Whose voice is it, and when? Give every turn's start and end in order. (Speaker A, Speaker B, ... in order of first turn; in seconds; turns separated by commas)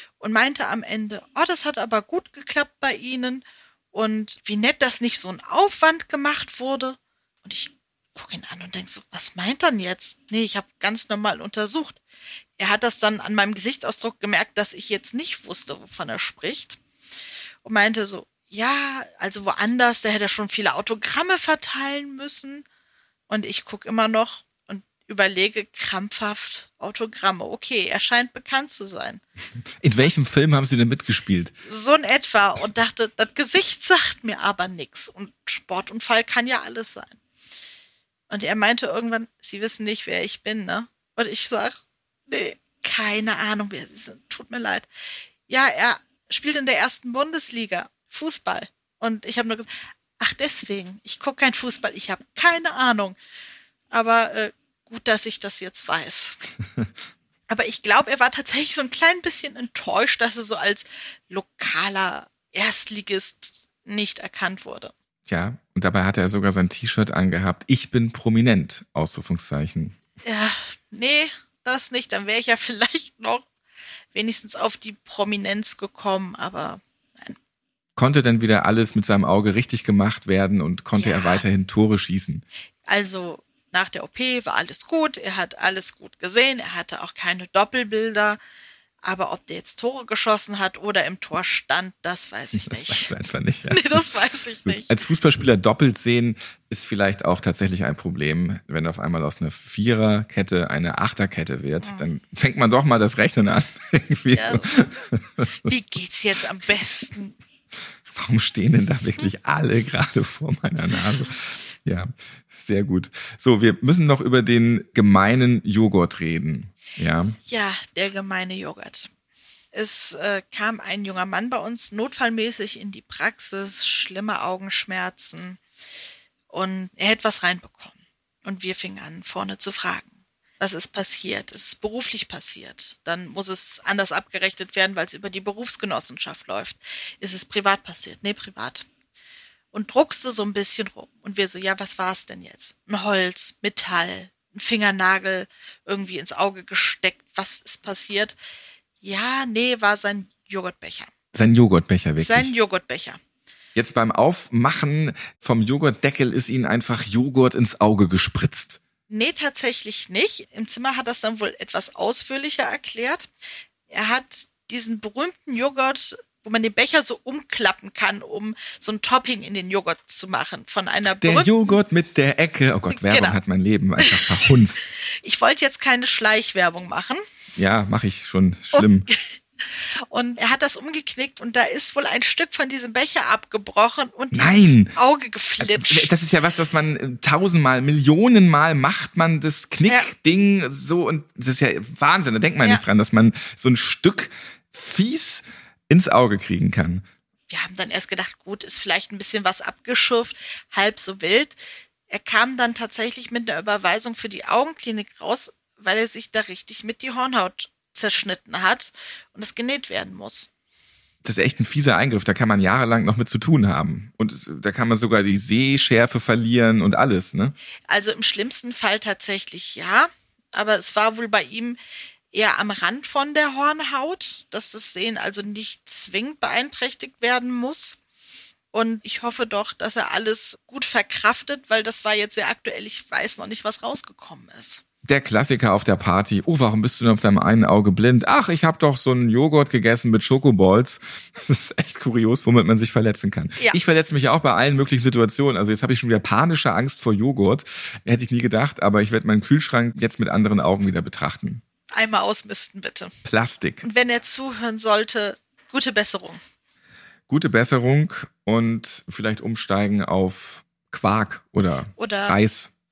Speaker A: 0.2-12.0, Speaker A: 12.6-16.8, Speaker A: 17.6-22.6, Speaker A: 23.3-29.2, Speaker B: 29.8-31.6, Speaker A: 31.6-37.2, Speaker A: 38.3-44.9, Speaker A: 45.5-49.7, Speaker A: 50.2-53.2, Speaker A: 53.9-56.4, Speaker A: 57.5-64.9, Speaker B: 65.2-70.0, Speaker A: 70.2-73.5, Speaker A: 74.1-77.4, Speaker B: 78.0-82.4, Speaker A: 81.0-81.4, Speaker A: 82.9-88.4, Speaker A: 89.0-93.1, Speaker B: 92.5-94.0, Speaker A: 93.7-95.0, Speaker B: 94.7-105.7, Speaker A: 104.3-104.7, Speaker A: 105.6-107.4, Speaker B: 108.1-117.4, Speaker A: 117.5-119.1, Speaker A: 119.7-125.6, Speaker A: 126.5-130.1, Speaker A: 130.6-138.8, Speaker A: 139.7-148.3, Speaker A: 149.0-151.1, Speaker B: 151.3-152.5, Speaker A: 152.2-153.2, Speaker B: 153.7-158.8, Speaker A: 159.1-163.3, Speaker A: 163.9-171.5, Speaker B: 171.2-174.8, Speaker A: 172.9-173.4, Speaker A: 174.0-174.3, Speaker A: 175.0-177.2, Speaker B: 177.6-179.1, Speaker A: 178.7-186.1, Speaker B: 184.3-184.9, Speaker B: 185.6-197.0, Speaker A: 197.5-210.5, Speaker B: 211.2-217.6, Speaker A: 217.9-221.8, Speaker A: 222.3-228.0, Speaker A: 228.7-234.8, Speaker B: 235.0-251.6, Speaker A: 251.9-253.1, Speaker B: 253.2-253.8, Speaker A: 253.8-256.4, Speaker B: 257.3-262.7, Speaker A: 262.0-262.4